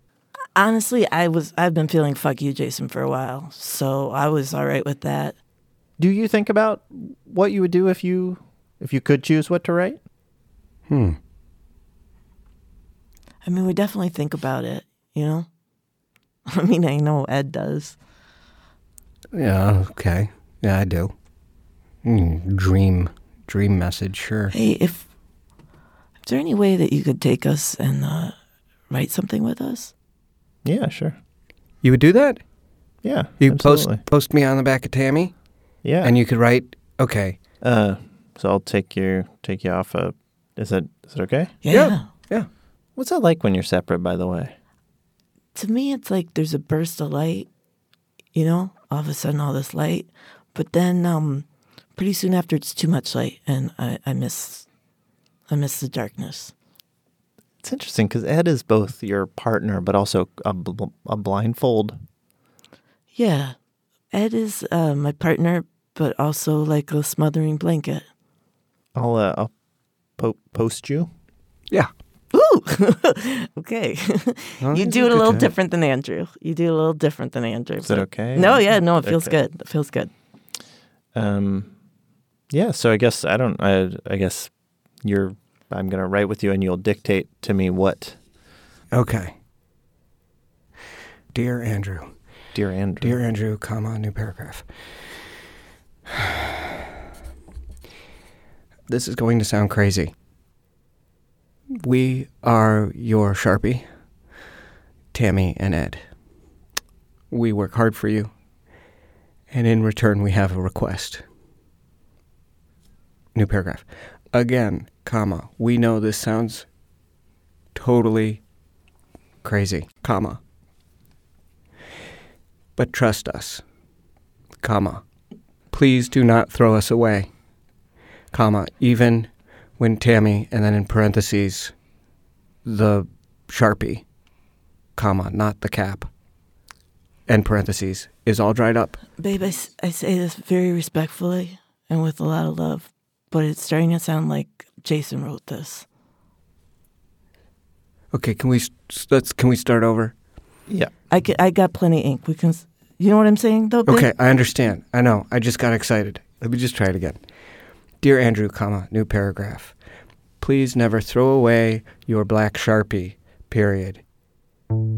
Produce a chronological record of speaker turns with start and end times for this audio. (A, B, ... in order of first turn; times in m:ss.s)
0:00.6-0:05.4 A
0:06.0-0:10.0 B
0:10.9-0:11.2 C
0:13.4-0:15.5 A
0:16.5-0:18.0 A
0:19.3-0:21.1 C
0:22.0-0:24.5 C
0:24.5-0:25.1 A
0:26.2-0:28.3 A
0:28.9-0:29.9 A
0:30.6-0:31.2 B
0:31.8-0:32.4 C
0:33.0-0:34.0 B
0:33.4-0:35.3 C
0:35.8-0:36.1 B
0:36.0-0:37.4 C
0:37.6-0:41.5 B
0:41.6-0:42.1 A
0:41.7-0:42.5 C
0:43.0-0:44.5 B
0:45.5-0:47.5 A
0:48.3-0:51.4 A
0:52.0-0:54.6 A
0:55.5-0:56.5 A
0:57.6-1:02.0 B
1:03.1-1:03.5 A
1:04.1-1:08.0 A
1:08.9-1:09.5 B
1:10.2-1:11.1 B
1:12.3-1:20.1 A
1:14.6-1:15.5 C
1:17.8-1:19.4 B
1:21.1-1:21.7 B
1:22.5-1:24.5 B
1:25.0-1:28.2 B
1:28.9-1:29.3 C
1:31.3-1:32.1 C
1:32.5-1:33.2 B
1:33.0-1:34.7 C
1:36.1-1:36.7 C
1:38.9-1:40.1 C
1:41.7-1:43.8 C
1:45.1-1:46.0 C
1:47.3-1:48.3 C
1:49.5-1:51.2 C
1:53.3-1:56.6 C
1:57.7-1:58.4 C
1:59.4-2:00.4 C
2:02.8-2:03.6 C
2:04.6-2:05.0 C
2:05.7-2:07.3 C
2:08.3-2:11.7 C
2:12.6-2:14.0 C
2:15.0-2:16.1 C
2:17.3-2:19.0 C
2:19.2-2:25.8 A
2:28.1-2:30.1 C
2:30.7-2:30.9 B
2:31.1-2:34.1 A
2:33.8-2:37.2 C
2:38.0-2:39.7 C
2:40.4-2:44.0 C